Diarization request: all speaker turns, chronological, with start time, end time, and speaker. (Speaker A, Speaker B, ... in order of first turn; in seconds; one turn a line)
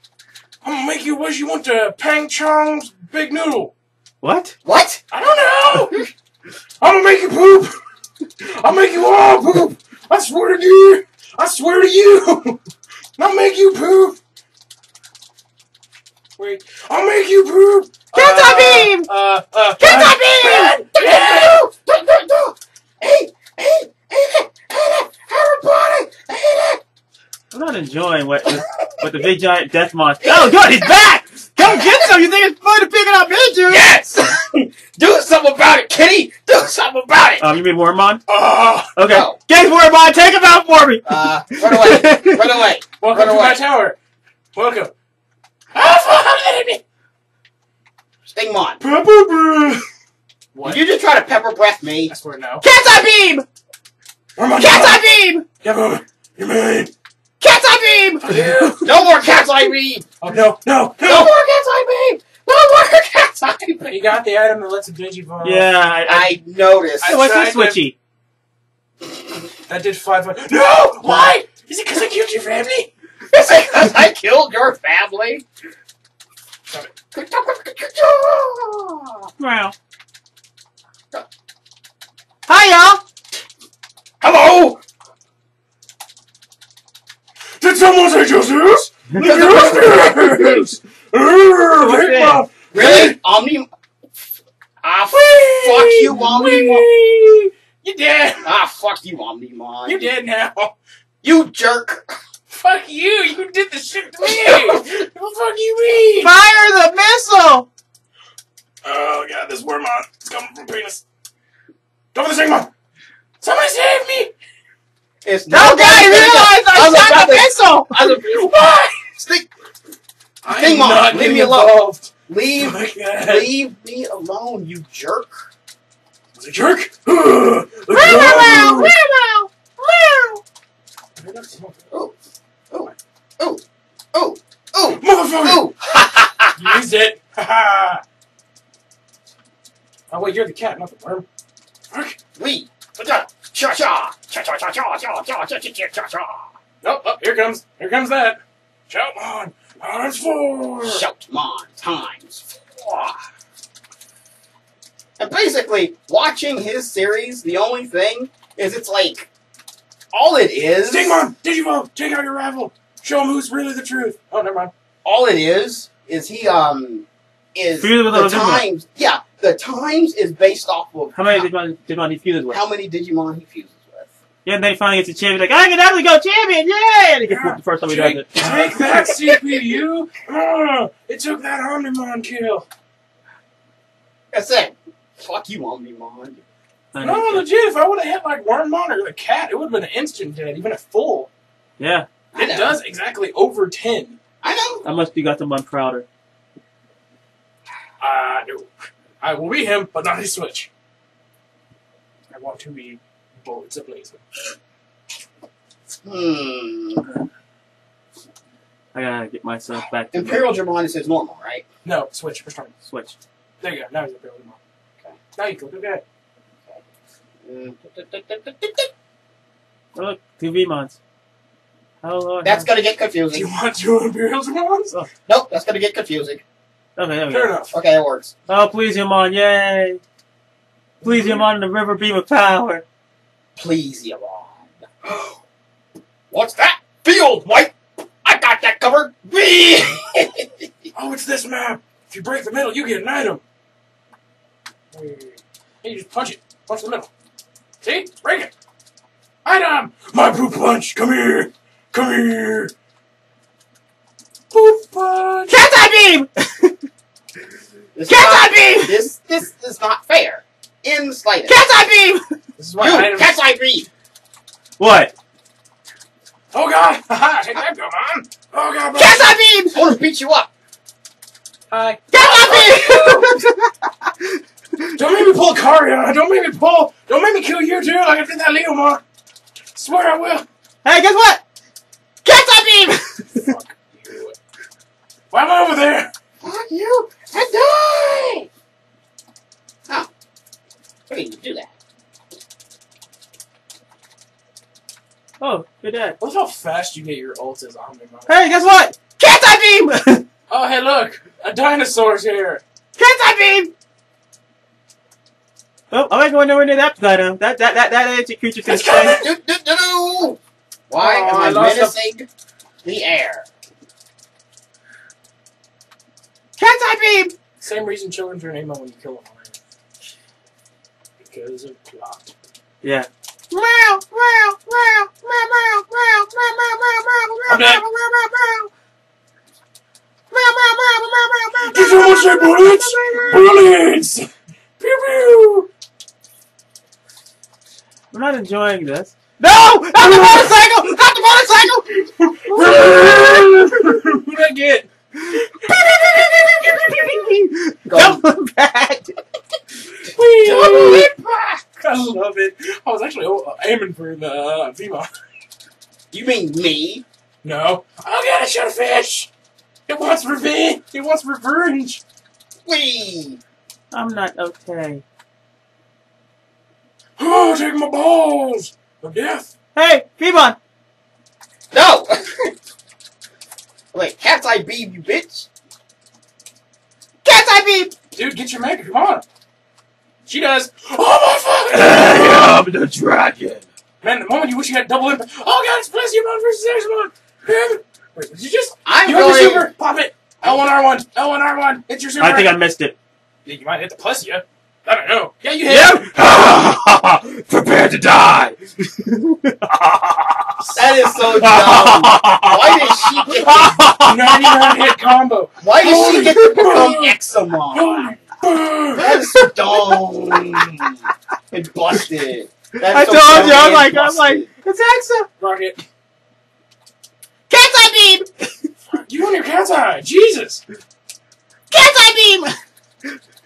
Speaker A: 0.6-3.7
Speaker B: 4.2-4.5
Speaker C: 4.6-5.0
Speaker A: 5.1-6.0
Speaker A: 6.8-7.7
Speaker A: 8.4-12.6
Speaker A: 13.2-14.2
Speaker A: 16.4-21.6
Speaker B: 18.1-19.1
Speaker C: 19.8-26.8
Speaker B: 20.2-20.7
Speaker B: 27.5-33.9
Speaker C: 30.2-30.9
Speaker C: 31.6-32.2
Speaker C: 33.6-37.5
Speaker B: 37.4-38.2
Speaker A: 38.3-38.9
Speaker B: 38.9-42.5
Speaker C: 39.1-39.4
Speaker C: 41.0-43.6
Speaker A: 43.0-44.0
Speaker A: 44.5-44.9
Speaker A: 45.7-46.8
Speaker C: 48.3-48.8
Speaker A: 48.8-49.8
Speaker A: 50.5-50.8
Speaker C: 50.6-52.1
Speaker A: 52.1-52.6
Speaker B: 52.6-53.4
Speaker C: 52.7-53.3
Speaker A: 54.4-55.0
Speaker B: 54.6-55.4
Speaker A: 55.6-56.9
Speaker C: 57.4-60.1
Speaker A: 58.2-59.0
Speaker A: 60.2-61.3
Speaker C: 61.0-63.9
Speaker A: 63.8-65.7
Speaker B: 65.4-66.4
Speaker C: 66.1-67.2
Speaker A: 67.0-67.8
Speaker B: 67.0-67.9
Speaker A: 69.7-72.9
Speaker C: 73.3-75.4
Speaker C: 77.1-79.3
Speaker B: 79.4-79.7
Speaker B: 82.5-83.0
Speaker C: 84.2-84.8
Speaker A: 87.6-93.2
Speaker B: 89.1-89.6
Speaker C: 89.2-90.0
Speaker B: 91.8-92.4
Speaker C: 92.7-93.7
Speaker C: 94.8-96.8
Speaker A: 95.1-98.5
Speaker C: 98.4-100.1
Speaker A: 99.8-100.7
Speaker C: 101.2-102.1
Speaker A: 102.5-106.3
Speaker B: 106.2-107.7
Speaker A: 108.8-111.0
Speaker A: 112.1-112.7
Speaker A: 113.4-114.3
Speaker C: 115.2-118.4
Speaker B: 115.5-118.3
Speaker A: 118.0-119.2
Speaker A: 120.4-123.5
Speaker C: 120.5-125.5
Speaker A: 126.3-128.9
Speaker B: 127.9-130.4
Speaker A: 131.2-131.8
Speaker C: 132.7-133.6
Speaker C: 134.1-136.8
Speaker A: 134.9-135.7
Speaker A: 136.6-138.0
Speaker A: 140.1-141.2
Speaker A: 141.9-142.2
Speaker C: 142.3-146.5
Speaker A: 146.8-151.0
Speaker C: 150.8-153.2
Speaker C: 155.2-159.3
Speaker C: 160.1-161.3
Speaker A: 160.8-164.7
Speaker C: 165.0-171.5
Speaker B: 167.8-168.7
Speaker B: 171.1-172.6
Speaker C: 172.5-174.1
Speaker B: 174.4-178.7
Speaker A: 177.3-182.7
Speaker C: 184.3-186.4
Speaker B: 186.9-187.4
Speaker A: 187.0-191.3
Speaker B: 191.8-192.1
Speaker C: 192.3-192.8
Speaker A: 192.3-194.2
Speaker C: 194.4-194.8
Speaker B: 194.8-196.1
Speaker A: 198.0-198.7
Speaker A: 199.2-200.7
Speaker A: 202.3-204.2
Speaker C: 206.0-207.1
Speaker B: 208.9-210.5
Speaker C: 210.1-211.6
Speaker A: 211.8-212.7
Speaker B: 212.8-213.2
Speaker A: 213.6-214.6
Speaker A: 215.3-216.0
Speaker C: 217.4-218.9
Speaker B: 219.9-221.0
Speaker B: 222.0-222.7
Speaker C: 222.4-223.5
Speaker A: 223.3-225.0
Speaker C: 225.3-226.4
Speaker B: 226.9-227.6
Speaker A: 227.3-227.7
Speaker C: 227.7-228.3
Speaker B: 228.5-230.0
Speaker A: 231.0-231.5
Speaker B: 231.0-232.8
Speaker C: 233.6-235.3
Speaker C: 236.3-240.7
Speaker A: 240.9-243.4
Speaker A: 244.9-247.1
Speaker A: 247.8-248.5
Speaker A: 249.4-252.7
Speaker A: 254.5-255.6
Speaker B: 255.5-256.7
Speaker C: 257.9-261.6
Speaker B: 258.1-258.9
Speaker B: 261.5-262.3
Speaker A: 262.6-263.3
Speaker C: 262.8-263.9
Speaker B: 264.8-265.1
Speaker A: 266.5-269.3
Speaker B: 269.0-269.7
Speaker C: 269.2-270.5
Speaker A: 271.7-272.2
Speaker C: 272.1-273.4
Speaker B: 272.2-273.7
Speaker A: 274.9-279.0
Speaker A: 279.7-280.4
Speaker B: 280.8-281.4
Speaker C: 282.2-283.0
Speaker A: 283.3-284.4
Speaker A: 285.3-286.1
Speaker C: 286.4-288.5
Speaker C: 291.1-291.7
Speaker B: 295.4-296.2
Speaker A: 296.2-298.6
Speaker B: 298.3-300.2
Speaker A: 300.5-302.6
Speaker B: 303.0-303.7
Speaker B: 305.9-309.2
Speaker A: 308.6-309.3
Speaker C: 309.0-310.4
Speaker C: 310.9-312.3
Speaker A: 311.0-311.9
Speaker C: 312.8-313.5
Speaker B: 316.6-317.3
Speaker A: 317.6-319.6
Speaker A: 321.2-322.3
Speaker B: 322.8-328.7
Speaker A: 327.5-327.8
Speaker B: 330.3-333.4
Speaker A: 331.6-334.3
Speaker A: 334.8-335.7
Speaker B: 338.1-341.8
Speaker C: 339.9-341.8
Speaker A: 342.2-344.9
Speaker B: 342.5-343.3
Speaker B: 345.3-349.1
Speaker C: 347.9-348.2
Speaker A: 350.1-351.1
Speaker B: 350.4-351.0
Speaker C: 350.6-351.6
Speaker A: 351.8-355.1
Speaker C: 356.1-357.0
Speaker A: 357.4-359.3
Speaker A: 359.9-362.0
Speaker C: 362.6-363.4
Speaker B: 363.9-365.0
Speaker A: 367.2-369.5
Speaker B: 369.7-370.6
Speaker C: 371.7-372.5
Speaker C: 373.9-375.5
Speaker C: 377.2-377.9
Speaker A: 378.1-379.2
Speaker A: 380.3-382.6
Speaker B: 381.7-383.6
Speaker A: 384.0-392.5
Speaker C: 388.8-389.7
Speaker B: 392.2-392.9
Speaker A: 393.4-396.1
Speaker B: 395.7-400.7
Speaker C: 400.7-403.8
Speaker B: 401.3-404.7
Speaker A: 404.0-407.1
Speaker C: 405.6-408.2
Speaker A: 407.7-409.1
Speaker C: 408.9-411.0
Speaker B: 409.1-410.0
Speaker C: 411.5-414.5
Speaker B: 412.8-415.3
Speaker A: 415.4-415.8
Speaker C: 417.5-418.2
Speaker A: 418.9-420.6
Speaker C: 421.7-422.5